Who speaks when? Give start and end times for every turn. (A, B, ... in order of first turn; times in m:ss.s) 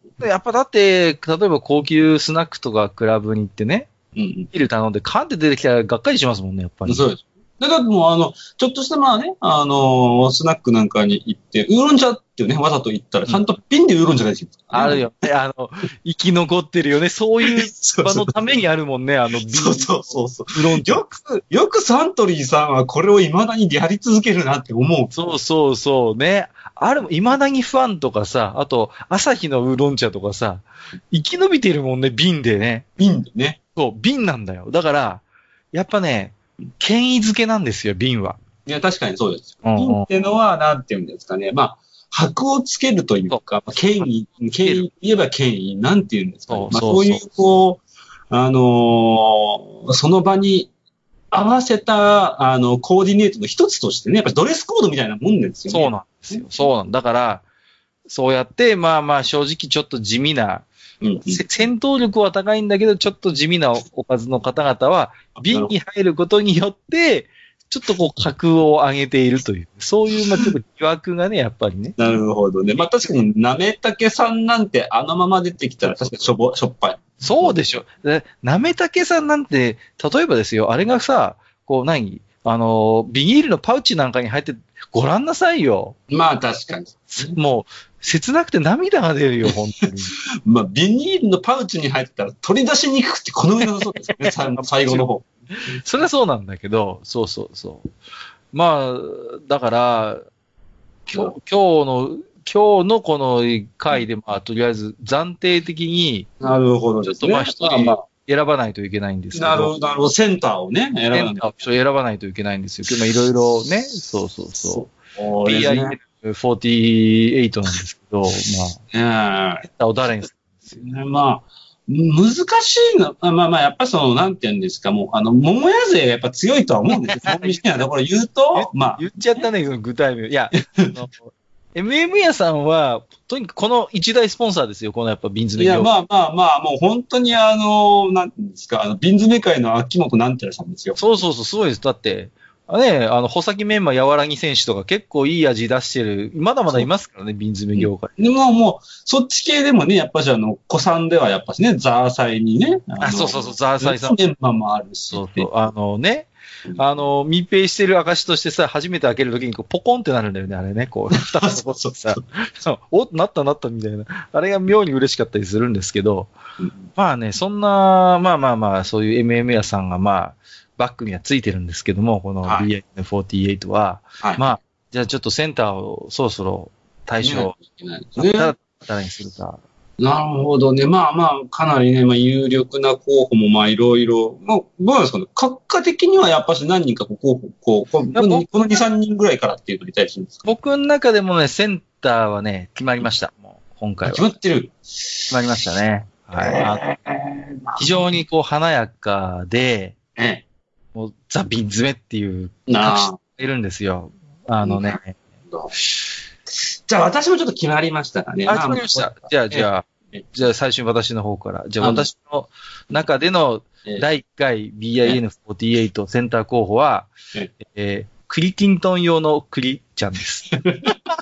0:00.2-0:03.9 A
0:04.2-0:04.5 B
0:04.5-0:07.1 A
0:06.9-0:15.0 B
0:14.7-0:21.1 A
0:17.4-0:18.3 B
0:19.4-0:25.1 B
0:25.1-0:32.9 A
0:33.0-0:33.6 B
0:33.8-0:38.4 A
0:38.7-0:50.7 B
0:39.6-0:40.1 A
0:46.5-0:47.3 A
0:51.3-0:56.5 B
0:55.7-0:57.4 A
0:58.1-1:00.7 A
1:01.0-1:01.4 B
1:01.3-1:12.0 A
1:05.4-1:05.7 B
1:12.0-1:17.6 B
1:17.2-1:26.0 A
1:26.1-1:27.4 B
1:27.1-1:30.2 A
1:30.4-1:35.3 B
1:34.2-1:35.0 A
1:35.6-1:37.9 A
1:38.5-1:40.2 A
1:41.1-1:46.3 A
1:46.4-1:48.0 B
1:47.1-1:49.7 A
1:49.3-1:51.6 B
1:51.1-1:54.9 A
1:54.7-1:56.0 B
1:55.4-1:58.8 A
1:58.9-1:59.7 B
1:59.6-2:00.9 A
2:00.8-2:09.5 B
2:07.1-2:07.8 A
2:08.5-2:15.9 A
2:15.6-2:21.0 B
2:21.0-2:28.1 A
2:27.8-2:35.5 B
2:33.0-2:34.2 A
2:35.1-2:46.3 A
2:41.3-2:42.2 B
2:46.6-2:46.8 B
2:47.0-2:57.6 A
2:52.4-2:52.7 B
2:54.2-2:54.5 B
2:57.2-2:58.5 B
2:58.2-2:59.6 A
3:00.0-3:10.5 B
3:08.1-3:08.5 A
3:10.4-3:14.3 A
3:14.0-3:15.3 B
3:15.3-3:16.8 A
3:16.4-3:17.9 B
3:17.8-3:20.0 A
3:20.2-3:20.4 B
3:21.0-3:25.2 A
3:22.7-3:23.2 B
3:24.6-3:25.7 B
3:26.9-3:30.3 B
3:28.5-3:40.5 A
3:31.8-3:32.1 B
3:40.6-3:40.9 B